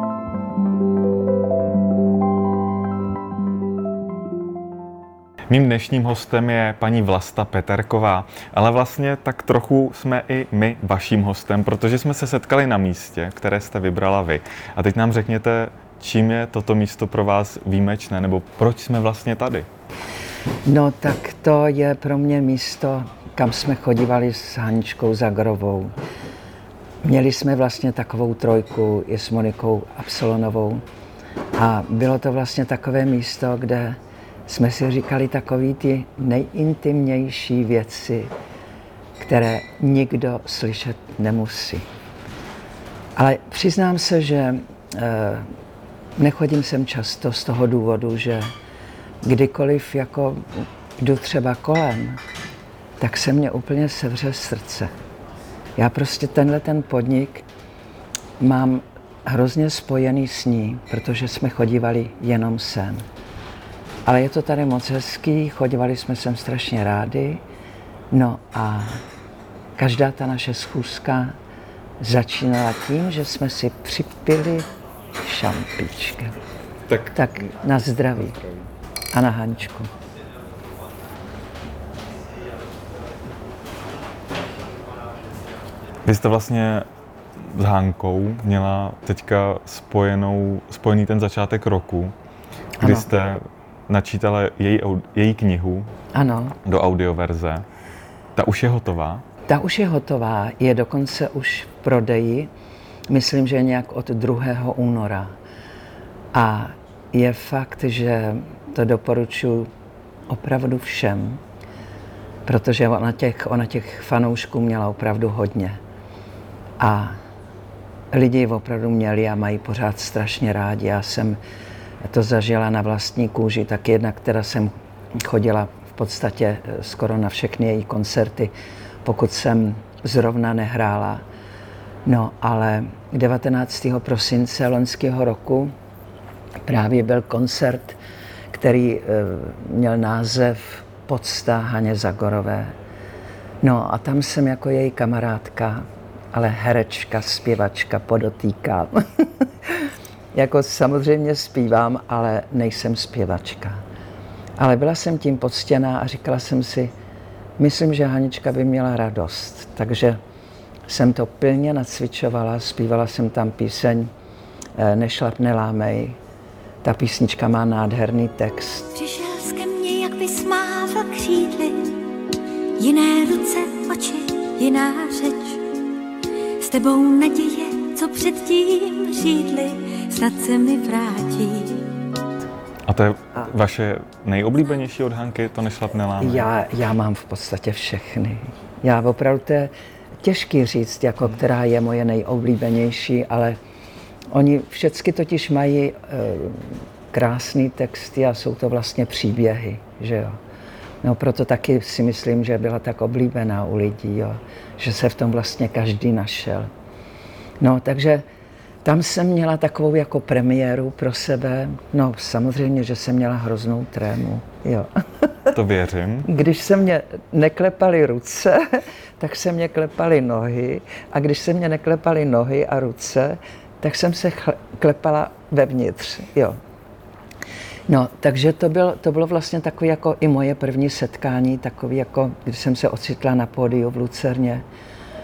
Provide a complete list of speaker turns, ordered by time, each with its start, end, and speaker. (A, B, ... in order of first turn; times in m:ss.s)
0:05.5-0:19.7 A
0:20.6-0:25.9 B
0:27.0-0:30.8 B
0:31.6-0:38.3 B
0:39.2-0:41.8 B
0:43.2-0:45.5 B
0:46.2-0:48.5 B
0:49.2-0:52.2 B
0:53.0-0:54.9 B
0:55.8-0:57.4 B
0:58.4-1:03.0 B
1:04.1-1:07.4 B
1:08.1-1:09.0 B
1:09.8-1:11.4 B
1:12.0-1:14.7 B
1:15.2-1:16.4 B
1:17.0-1:18.4 B
1:19.1-1:19.9 B
1:26.0-1:26.9 A
1:27.4-1:32.1 A
1:32.8-1:33.1 B
1:32.8-1:35.9 A
1:36.1-1:36.6 B
1:36.6-1:37.6 A
1:38.4-1:39.2 A
1:39.5-1:42.5 B
1:43.1-1:45.3 B
1:46.3-1:49.7 B
1:50.3-1:51.4 B
1:52.5-1:55.8 B
1:56.8-1:57.2 B
1:58.1-2:01.4 B
2:02.0-2:08.5 B
2:09.0-2:11.2 B
2:12.1-2:15.7 B
2:16.7-2:18.0 B
2:18.5-2:22.7 B
2:23.6-2:33.8 B
2:34.6-2:36.9 B
2:37.6-2:40.2 B
2:40.9-2:44.1 B
2:44.8-2:46.2 B
2:46.8-2:49.0 B
2:49.0-2:52.0 C
2:52.8-2:55.6 C
2:56.6-3:01.9 C
3:02.9-3:06.5 A
3:06.2-3:13.6 B
3:14.3-3:20.4 B
3:21.0-3:26.7 B
3:27.6-3:28.2 B
3:28.8-3:35.5 B
3:35.5-3:36.3 A
3:36.2-3:46.6 B
3:47.9-3:54.6 B